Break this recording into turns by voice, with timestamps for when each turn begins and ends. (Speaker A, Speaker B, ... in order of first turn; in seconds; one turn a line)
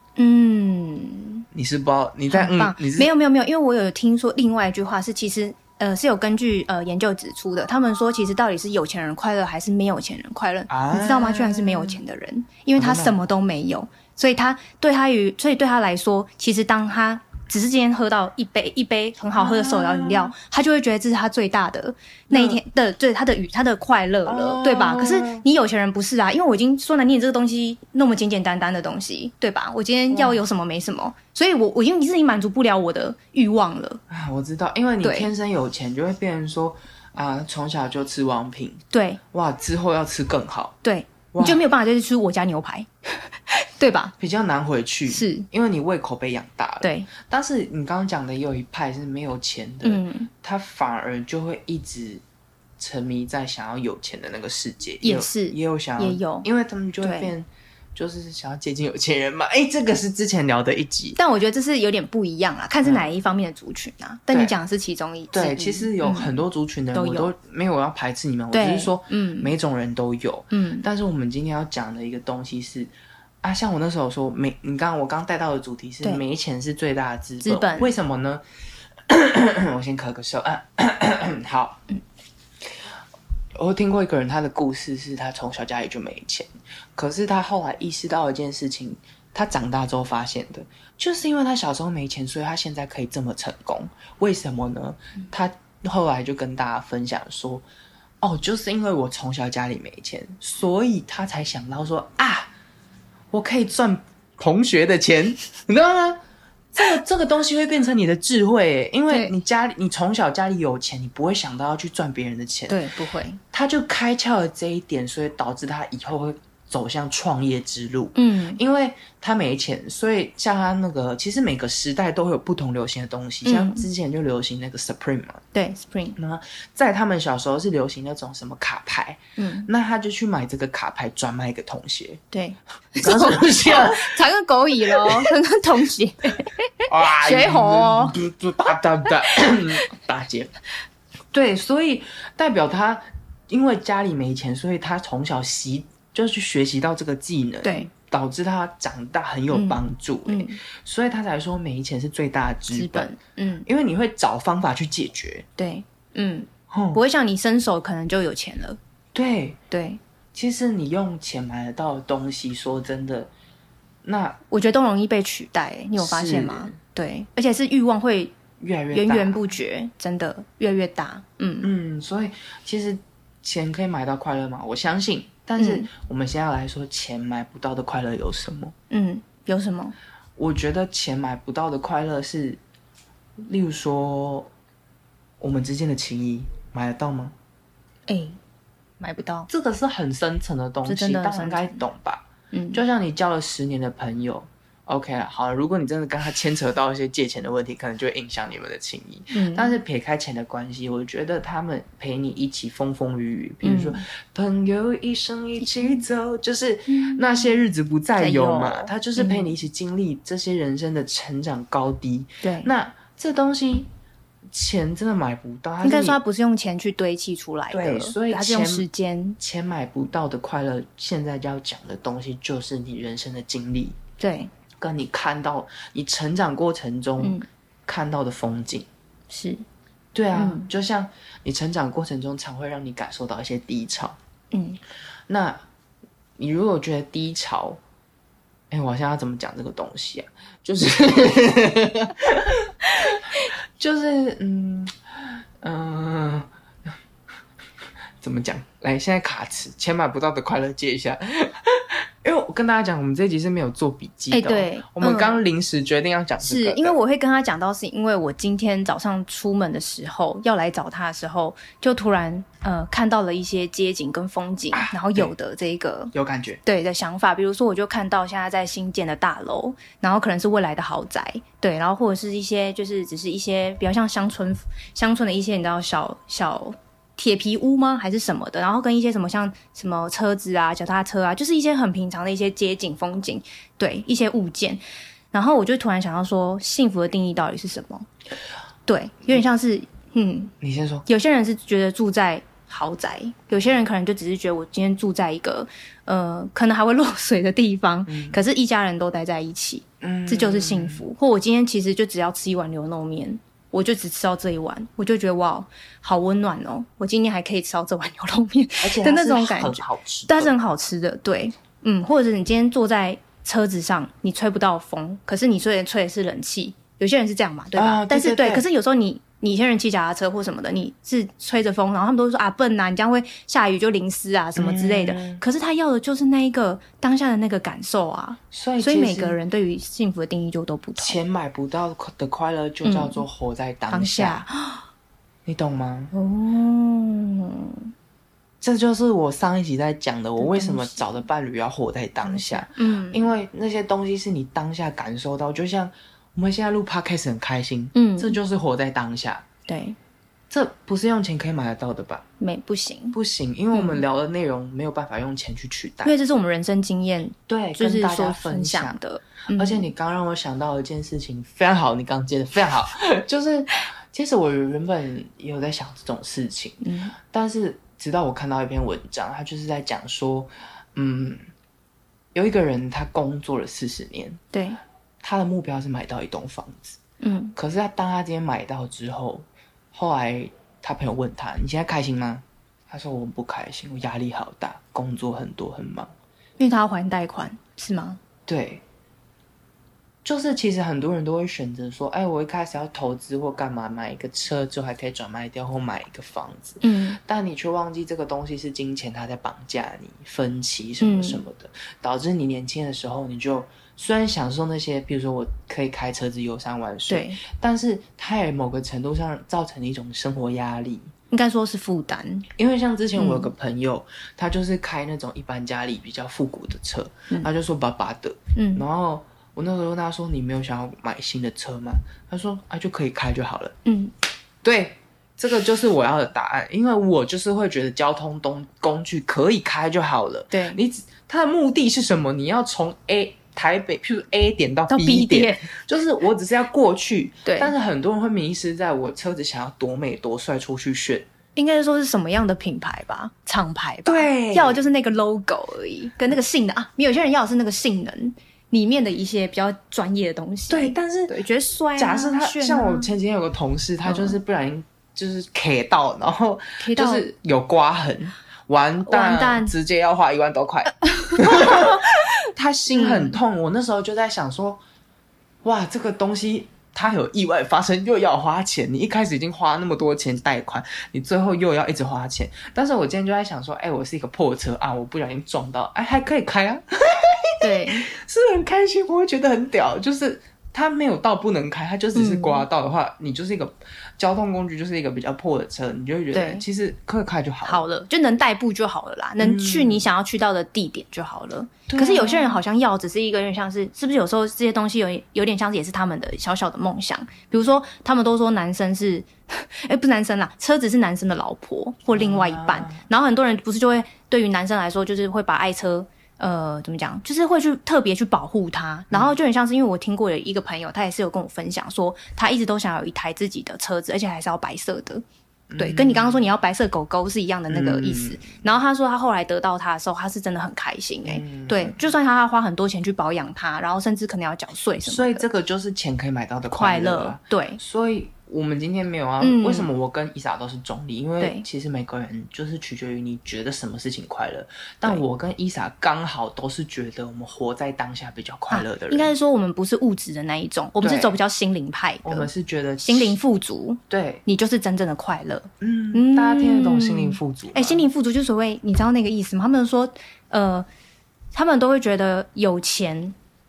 Speaker A: 0.2-1.5
Speaker B: 1.5-3.1
Speaker A: 2.3-34.0
Speaker B: 10.7-12.0
Speaker B: 12.8-13.2
Speaker B: 19.4-20.3
Speaker B: 22.3-22.6
Speaker B: 24.3-25.4
Speaker B: 30.1-30.4
Speaker B: 34.1-40.8
Speaker A: 35.0-35.3
Speaker A: 38.9-39.2
Speaker A: 40.8-44.1
Speaker B: 41.3-41.6
Speaker B: 44.2-52.2
Speaker A: 45.1-45.5
Speaker A: 46.8-47.1
Speaker A: 49.8-50.3
Speaker B: 52.8-61.2
Speaker A: 55.0-56.5
Speaker A: 57.0-57.3
Speaker A: 61.2-66.4
Speaker B: 62.8-63.1
Speaker B: 65.3-72.9
Speaker A: 66.9-67.3
Speaker A: 68.5-69.5
Speaker A: 70.5-70.9
Speaker B: 73.4-78.4
Speaker A: 77.4-77.9
Speaker B: 79.1-81.8
Speaker B: 83.6-97.7
Speaker B: 98.2-102.5
Speaker B: 103.3-106.2
Speaker B: 106.7-112.8
Speaker A: 112.7-113.4
Speaker B: 113.5-125.4
Speaker A: 118.2-118.6
Speaker A: 123.5-123.9
Speaker A: 125.5-126.2
Speaker B: 126.2-132.2
Speaker A: 129.4-129.7
Speaker A: 132.3-138.2
Speaker B: 132.9-134.2
Speaker B: 134.8-135.3
Speaker B: 136.9-140.5
Speaker B: 141.3-153.1
Speaker A: 147.6-147.9
Speaker A: 149.5-150.6
Speaker A: 152.7-153.7
Speaker B: 153.7-155.5
Speaker A: 155.6-158.8
Speaker B: 156.7-157.0
Speaker B: 159.1-159.6
Speaker A: 159.7-160.0
Speaker B: 160.3-163.3
Speaker B: 164.0-164.4
Speaker A: 164.5-168.4
Speaker B: 166.0-166.8
Speaker B: 168.6-169.4
Speaker A: 168.9-171.7
Speaker B: 171.6-178.7
Speaker A: 175.6-175.9
Speaker A: 178.9-179.9
Speaker B: 180.4-182.6
Speaker B: 183.4-184.5
Speaker B: 185.4-187.3
Speaker A: 188.1-188.4
Speaker A: 189.0-189.5
Speaker B: 189.5-213.9
Speaker A: 190.9-191.8
Speaker A: 192.5-192.8
Speaker A: 199.3-199.8
Speaker A: 203.6-204.0
Speaker A: 206.9-207.4
Speaker A: 208.2-209.5
Speaker A: 212.4-212.7
Speaker B: 214.5-216.2
Speaker A: 215.8-219.4
Speaker B: 217.7-218.9
Speaker B: 219.4-224.0
Speaker A: 224.2-224.5
Speaker B: 224.8-228.9
Speaker A: 229.3-229.6
Speaker B: 230.1-234.2
Speaker A: 230.3-230.7
Speaker A: 234.5-234.8
Speaker B: 235.3-235.6
Speaker B: 236.4-237.8
Speaker B: 238.7-246.9
Speaker B: 248.2-257.0
Speaker A: 254.3-255.4
Speaker A: 256.4-266.1
Speaker B: 264.7-265.3
Speaker B: 266.1-266.6
Speaker A: 266.6-284.8
Speaker A: 285.3-288.1
Speaker A: 288.9-290.5
Speaker B: 290.6-291.1
Speaker A: 291.1-331.2
Speaker B: 298.1-298.4
Speaker B: 300.0-301.1
Speaker B: 308.8-310.5
Speaker B: 317.8-318.6
Speaker B: 324.6-325.4
Speaker B: 328.5-329.4
Speaker B: 331.0-334.4
Speaker A: 332.8-333.2
Speaker A: 333.9-334.9
Speaker B: 335.5-336.1
Speaker A: 336.1-337.9
Speaker B: 338.6-349.5
Speaker A: 340.4-341.1
Speaker A: 342.2-343.3
Speaker A: 347.9-348.4
Speaker A: 349.7-350.0
Speaker B: 350.5-352.2
Speaker A: 352.4-353.2
Speaker B: 353.1-356.1
Speaker A: 353.7-354.0
Speaker A: 356.1-359.9
Speaker B: 357.5-359.0
Speaker B: 359.5-371.4
Speaker A: 366.8-367.1
Speaker B: 372.4-374.4
Speaker A: 374.5-374.8
Speaker B: 375.2-377.0
Speaker A: 377.2-377.6
Speaker B: 377.6-386.1
Speaker A: 386.6-388.2
Speaker B: 388.5-388.8
Speaker B: 390.2-411.1
Speaker A: 396.8-397.2
Speaker A: 401.0-401.4
Speaker A: 407.1-407.4
Speaker A: 411.3-412.5
Speaker B: 412.6-423.8
Speaker A: 413.2-413.5
Speaker A: 418.6-418.8
Speaker A: 423.9-424.1
Speaker B: 424.6-441.3
Speaker A: 430.5-430.8
Speaker A: 434.9-435.7
Speaker A: 437.5-437.7
Speaker A: 441.6-453.1
Speaker B: 444.1-444.8
Speaker B: 450.7-451.4
Speaker B: 452.0-464.8
Speaker A: 454.1-454.4
Speaker A: 456.8-457.3
Speaker A: 459.1-459.7
Speaker A: 461.1-462.3
Speaker A: 462.9-463.4
Speaker B: 465.6-487.9
Speaker A: 477.6-478.1
Speaker A: 482.1-482.7
Speaker A: 486.3-486.6
Speaker A: 487.6-515.2
Speaker B: 489.4-490.1
Speaker B: 491.9-492.6
Speaker B: 502.1-503.1
Speaker B: 515.7-516.5
Speaker A: 515.8-525.4
Speaker B: 517.7-518.5
Speaker B: 521.2-522.0
Speaker B: 525.0-539.3
Speaker A: 526.7-527.8
Speaker A: 529.4-529.9
Speaker A: 531.4-531.7
Speaker A: 538.7-550.9
Speaker B: 541.0-541.4
Speaker B: 542.2-543.4
Speaker B: 544.1-544.4
Speaker B: 545.8-548.1
Speaker A: 551.5-553.4